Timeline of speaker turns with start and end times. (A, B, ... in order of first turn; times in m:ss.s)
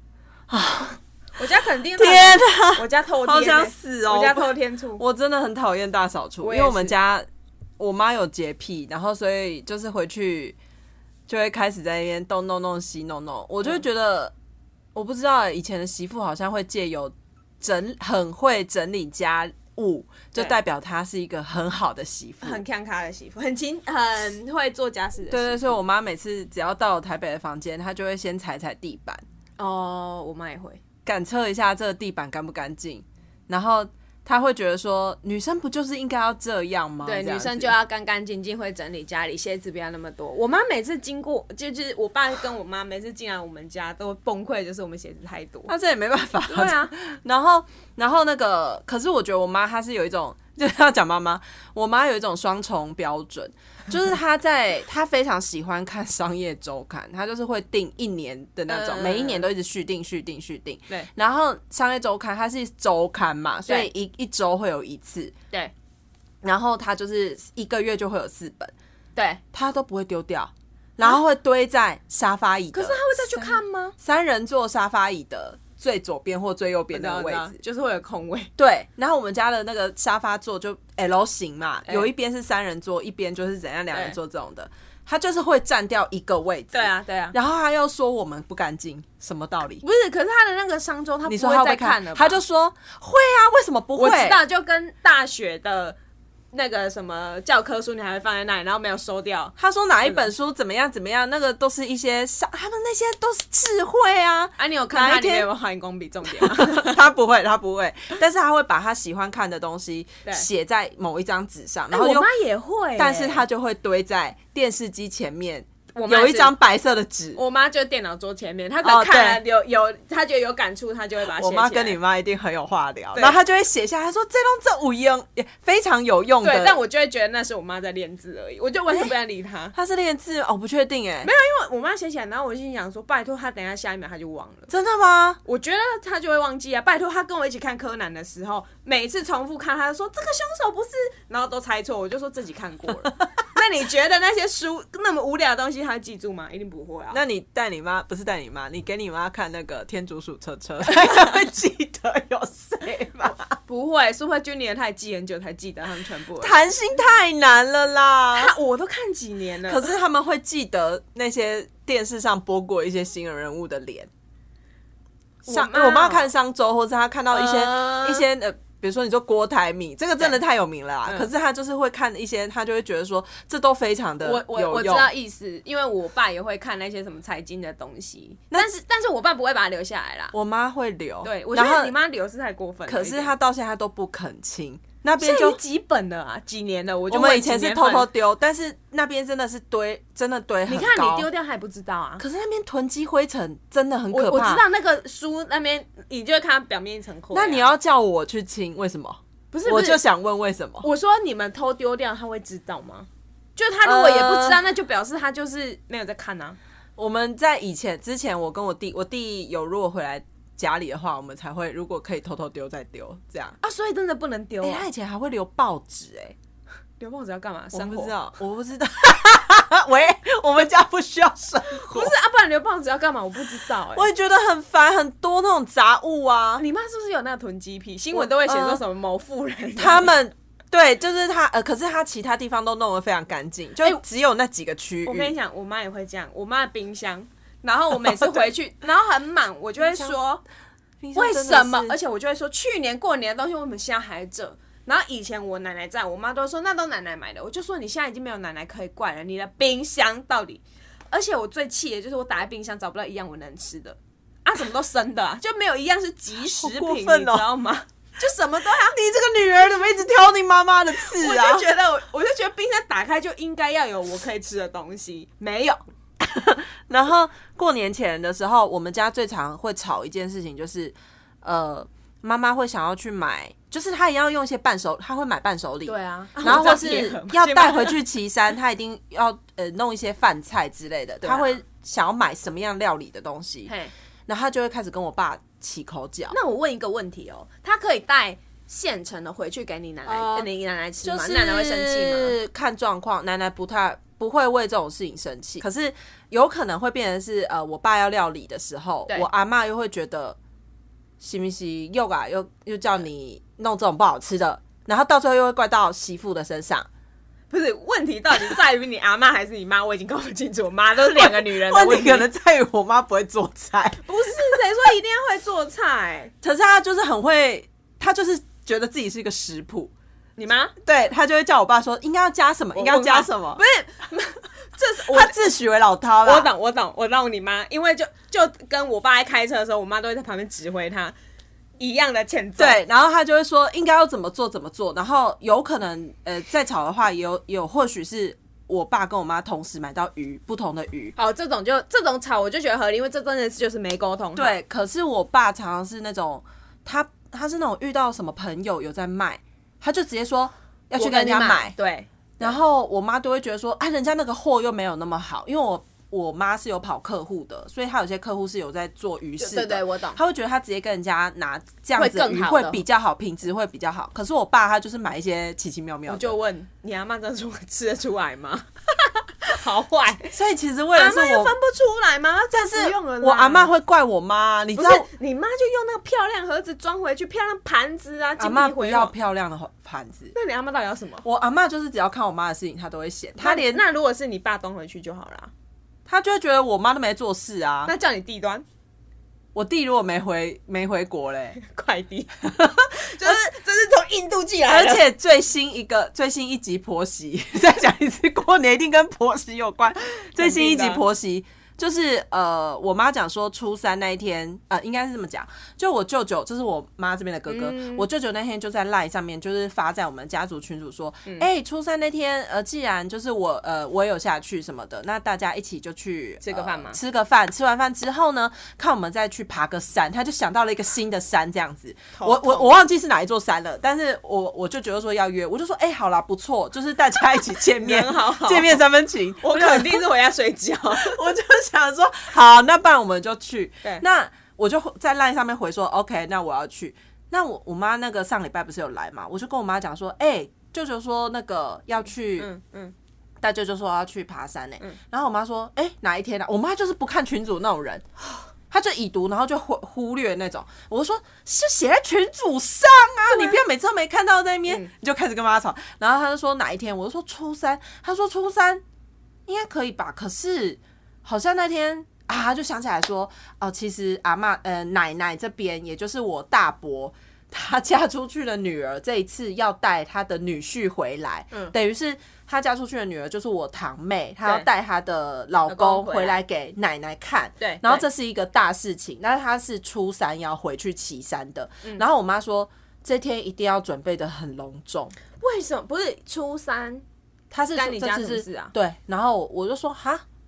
0:00.5-0:01.0 A
0:01.4-0:05.0 B
0:02.0-0:07.3 A
0:06.4-0:07.0 B
0:07.8-0:10.6 A
0:11.3-0:14.3 A
0:14.9-0:22.6 A
0:22.4-0:25.8 B
0:25.3-0:29.2 A
0:29.6-0:30.8 B
0:31.1-0:37.7 A
0:37.0-0:45.7 B
0:45.7-1:05.4 A
0:46.5-0:47.0 B
0:58.7-0:59.5 B
1:06.4-1:08.7 A
1:09.2-1:09.4 B
1:09.5-1:17.6 A
1:12.7-1:14.0 B
1:16.9-1:18.5 B
1:18.6-1:29.8 A
1:26.7-1:27.4 B
1:29.8-1:32.4 B
1:31.2-1:34.4 A
1:34.0-1:36.0 B
1:36.5-1:40.3 B
1:39.6-1:45.5 A
1:44.6-1:47.0 B
1:46.3-1:52.3 A
1:51.9-1:53.5 B
1:53.0-1:57.4 A
1:55.9-1:56.6 B
1:57.4-2:02.0 B
1:58.8-1:59.4 A
2:01.3-2:06.8 A
2:06.4-2:09.8 B
2:09.8-2:11.3 A
2:11.2-2:14.7 B
2:14.7-2:15.4 A
2:15.4-2:27.2 B
2:27.1-2:33.6 A
2:33.6-2:36.6 B
2:36.4-2:38.5 A
2:38.3-2:40.0 B
2:39.7-2:44.1 A
2:45.4-2:55.1 A
2:45.5-2:46.3 B
2:47.3-2:48.3 B
2:54.2-3:00.3 B
3:00.3-3:02.0 A
3:01.2-3:03.3 B
3:02.9-3:05.6 A
3:05.2-3:08.1 B
3:07.1-3:11.3 A
3:10.7-3:12.2 B
3:12.2-3:14.6 A
3:14.1-3:17.7 B
3:17.3-3:20.9 A
3:19.5-3:20.0 B
3:20.8-3:26.6 B
3:23.8-3:24.6 A
3:27.0-3:33.6 A
3:33.6-3:34.8 B
3:34.6-3:36.4 A
3:37.0-3:38.2 B
3:37.7-3:42.1 A
3:41.9-3:44.1 B
3:43.9-3:46.6 A
3:46.6-3:50.1 B
3:48.1-3:48.8 A
3:49.8-3:55.3 A
3:55.1-4:00.4 B
3:58.1-3:58.5 A
3:59.8-4:00.2 A
4:01.0-4:02.0 A
4:01.2-4:19.0 B
4:16.6-4:17.5 A
4:18.9-4:21.7 A
4:21.0-4:25.8 B
4:26.2-4:43.7 A
4:35.9-4:38.0 B
4:41.2-4:41.6 B
4:43.7-4:43.9 B
4:44.3-4:46.4 A
4:46.3-4:52.4 B
4:50.1-4:50.5 A
4:51.0-5:00.4 A
5:01.2-5:06.9 A
5:07.5-5:12.3 B
5:11.1-5:14.0 A
5:14.0-5:16.3 B
5:16.4-5:19.9 A
5:20.4-5:20.7 B
5:20.8-5:23.6 A
5:22.8-5:25.5 B
5:25.1-5:26.5 A
5:26.2-5:31.2 B
5:31.8-5:32.8 B
5:32.6-5:41.1 A
5:41.2-5:44.6 B
5:44.4-5:51.8 A
5:51.0-5:52.6 B
5:52.4-6:06.3 A
5:59.4-6:00.2 B
6:02.0-6:02.8 B
6:06.1-6:10.3 B
6:10.3-6:11.6 A
6:11.0-6:13.7 B
6:12.5-6:15.1 A
6:14.8-6:19.1 B
6:18.4-6:20.3 A
6:20.3-6:21.2 B
6:21.2-6:23.8 A
6:23.4-6:25.5 B
6:26.1-6:27.9 A
6:27.9-6:28.6 B
6:29.6-6:31.6 A
6:31.6-6:32.4 B
6:32.4-6:33.4 A
6:32.9-6:35.0 B
6:34.7-7:10.1 A
6:40.4-6:41.0 B
6:47.5-6:48.1 B
6:56.4-6:57.0 B
7:02.2-7:02.8 B
7:07.8-7:08.8 B
7:09.4-7:11.2 B
7:10.9-7:22.5 A
7:22.4-7:22.9 B
7:23.4-7:28.0 A
7:28.7-7:38.8 A
7:33.3-7:33.6 B
7:39.5-8:05.2 A
7:55.7-7:56.4 B
7:57.6-7:58.1 B
8:05.4-8:07.0 B
8:07.5-8:10.2 A
8:07.8-8:08.7 B